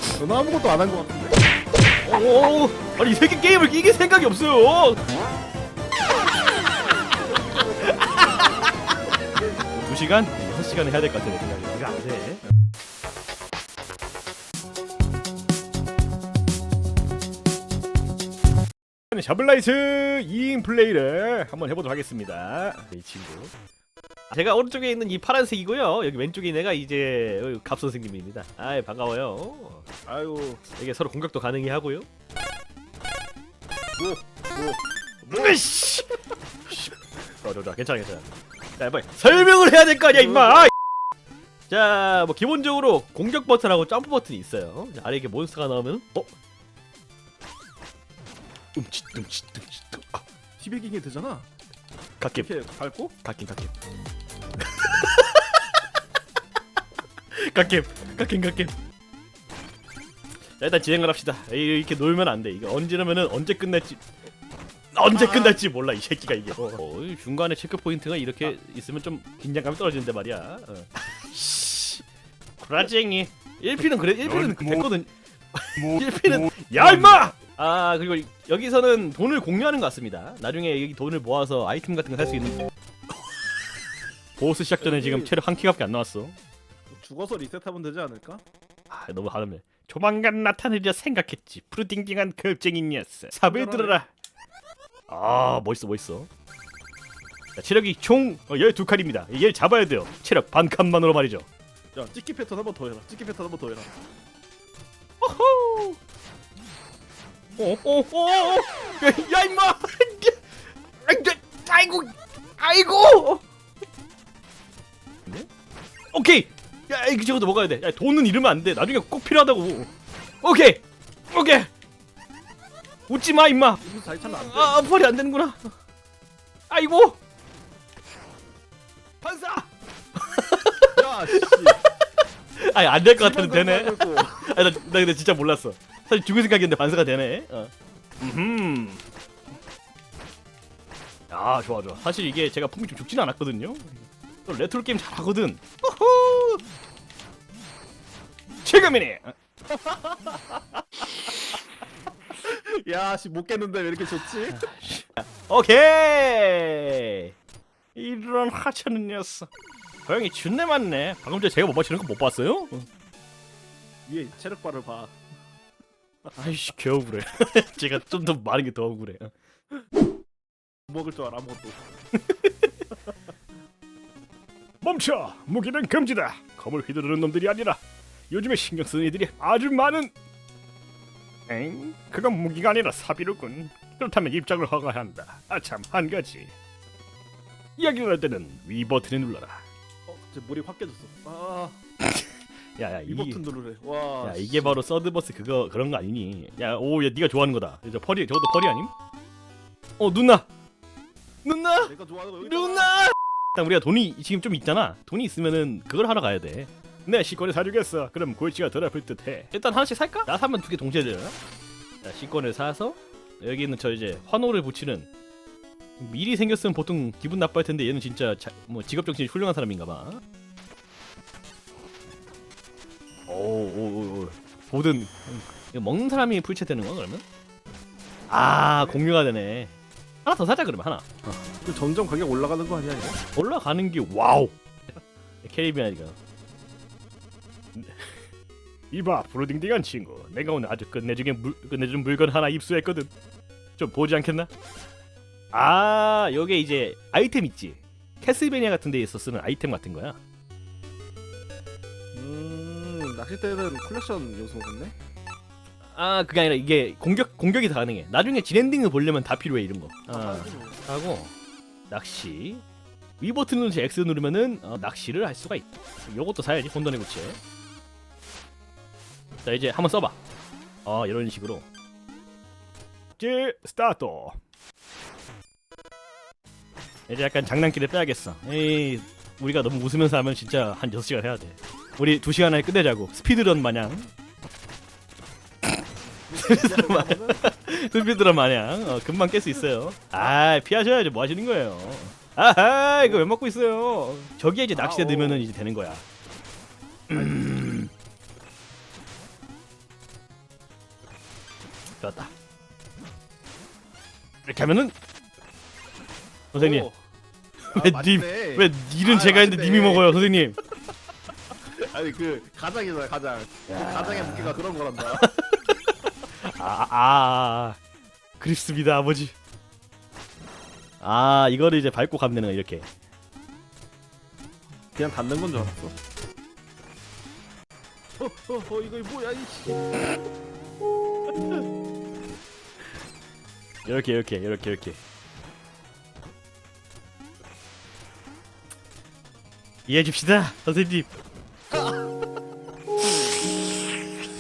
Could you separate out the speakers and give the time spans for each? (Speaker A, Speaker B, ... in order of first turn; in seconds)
Speaker A: 0.2-1.4, 7.3-8.4, 30.1-30.6, 34.0-35.6, 50.6-51.5, 52.3-53.1, 65.2-65.6, 84.8-85.3, 86.9-88.4, 93.5-94.0, 101.9-103.9, 123.8-124.8, 130.9-131.8, 133.2-134.5, 149.7-150.4, 152.4-154.6, 164.1-165.1, 170.9-171.8, 190.1-191.8, 193.1-194.8, 201.8-202.9, 228.8-229.0, 231.6-233.2, 252.1-254.9, 260.1-260.8, 286.3-287.4, 294.7-295.5, 306.6-307.0, 307.7-310.3, 311.7-315.3, 324.9-325.9, 328.2-330.0
Speaker B: 2.0-5.0, 7.8-8.7, 9.7-12.4, 19.1-23.5, 24.3-29.9, 30.8-32.1, 35.3-38.3, 38.8-40.7, 41.7-46.3, 48.8-50.2, 52.2-52.5, 53.2-53.7, 54.6-55.7, 57.3-58.7, 60.6-64.0, 64.9-72.0, 72.6-82.6, 84.4-86.3, 88.9-94.1, 95.1-96.3, 97.5-101.5, 105.2-106.0, 107.6-110.4, 111.0-113.4, 116.1-119.9, 120.4-121.7, 123.1-125.6, 126.7-127.2, 129.2-131.8, 132.6-139.0, 141.3-146.6, 148.6-149.3, 154.4-157.3, 157.9-159.5, 160.1-162.8, 166.4-169.3, 172.1-172.7, 174.8-180.1, 181.5-186.5, 187.8-189.6, 192.8-193.4, 194.2-198.9, 200.0-200.5, 201.4-211.4, 212.0-215.1, 216.0-220.2, 223.3-227.2, 228.3-229.7, 230.2-231.4, 233.3-234.5, 235.4-236.2, 237.8-238.2, 238.9-243.1, 243.8-244.5, 245.5-250.2, 255.9-261.3, 261.9-262.6, 263.2-267.4, 269.4-270.2, 270.8-271.7, 273.2-274.4, 277.1-284.1, 286.3-296.0, 297.1-297.9, 302.0-302.3, 304.4-304.9, 306.5-306.9, 307.7-310.6, 313.7-314.6, 315.1-317.8, 318.4-319.4, 321.0-322.9, 333.8-335.0, 339.9-341.1, 343.1-343.5